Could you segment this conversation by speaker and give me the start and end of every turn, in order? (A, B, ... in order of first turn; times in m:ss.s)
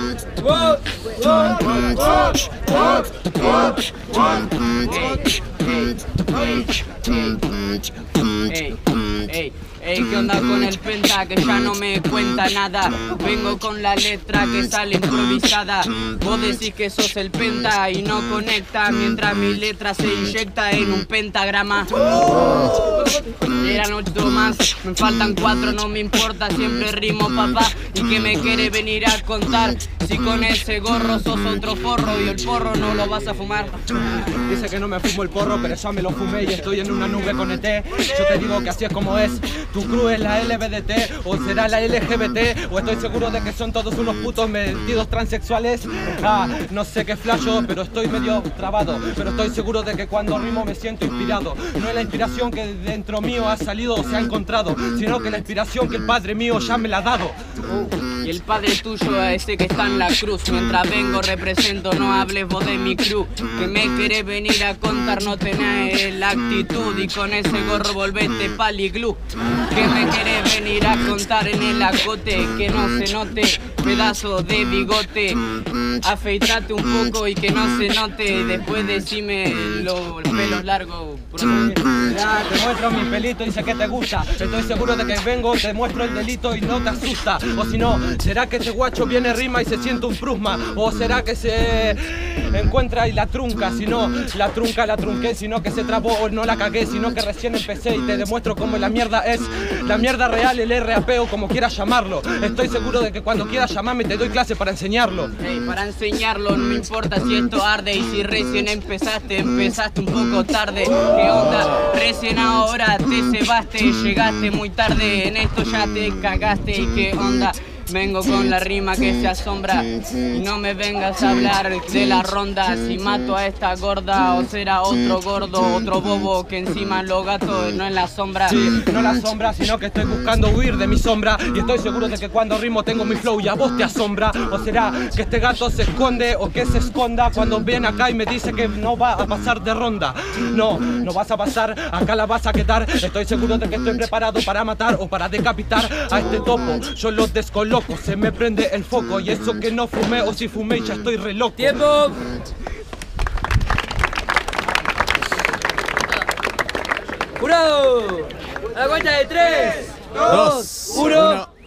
0:00.4-0:01.8 A
0:01.5-0:02.0 B
0:02.8-0:07.7 A
0:08.4-0:33.8 A
0:34.1-0:57.4 C
0:57.7-1:15.5 A
1:16.0-1:21.9 A
1:21.9-1:45.3 C
1:45.4-2:08.6 A
2:08.5-2:31.8 C
2:31.7-2:32.3 B
2:37.4-2:41.5 B